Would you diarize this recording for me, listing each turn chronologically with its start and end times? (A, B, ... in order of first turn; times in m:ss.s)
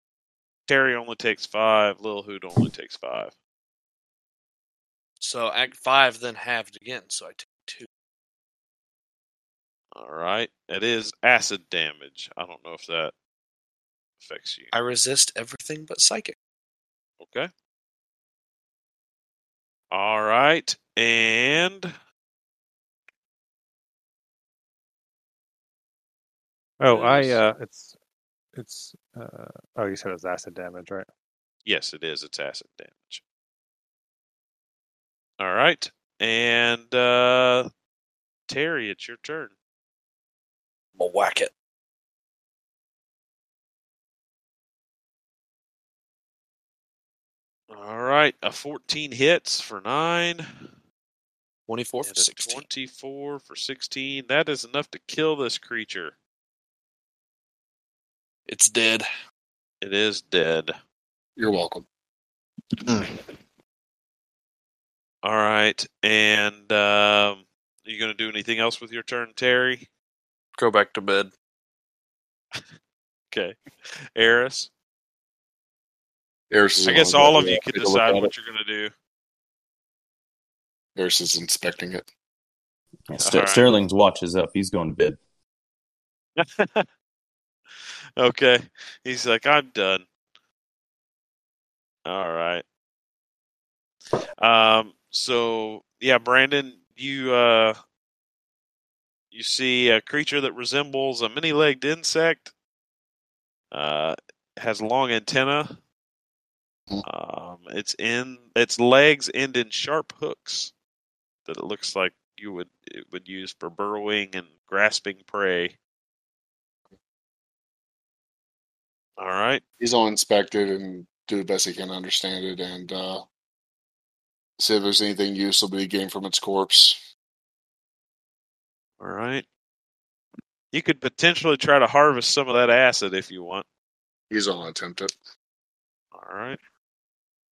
0:00.7-0:03.3 A
0:05.2-0:07.9 B
0:10.0-0:13.1 A
0:14.2-0:14.7 A
0:14.7-0:16.4 B
0:17.2-0:17.5 A
0:19.9-0:21.9 A
0:26.8-0:27.9 C
0:26.8-0:27.4 A
0:28.6-0:31.1 C
0:31.6-0:33.2 A
0:35.4-0:37.7 A
0:38.5-0:39.5 A
0:41.0-0:41.5 B
0:47.7-0:50.4 A
0:51.7-0:52.6 B
0:52.0-0:56.2 A
0:58.5-0:59.1 B
0:59.8-1:00.8 A
1:01.4-1:01.8 D
1:05.2-1:09.9 A
1:10.6-1:11.3 B
1:13.3-1:13.6 A
1:14.2-1:14.7 A
1:16.5-1:18.3 D
1:16.8-1:18.9 A
1:21.0-1:22.1 D
1:23.1-1:25.2 E
1:23.2-1:23.6 A
1:26.4-1:26.9 A
1:28.2-1:30.1 A
1:32.1-1:32.6 A
1:34.4-1:37.8 A
1:39.3-1:42.5 A
1:43.7-1:45.8 A
1:47.0-1:50.7 A
1:51.5-1:55.8 A
1:59.2-1:59.6 A
1:59.8-2:03.2 D
2:04.6-2:07.0 D
2:09.0-2:09.4 A
2:10.7-2:13.7 A
2:14.3-2:15.1 D
2:16.1-2:16.6 A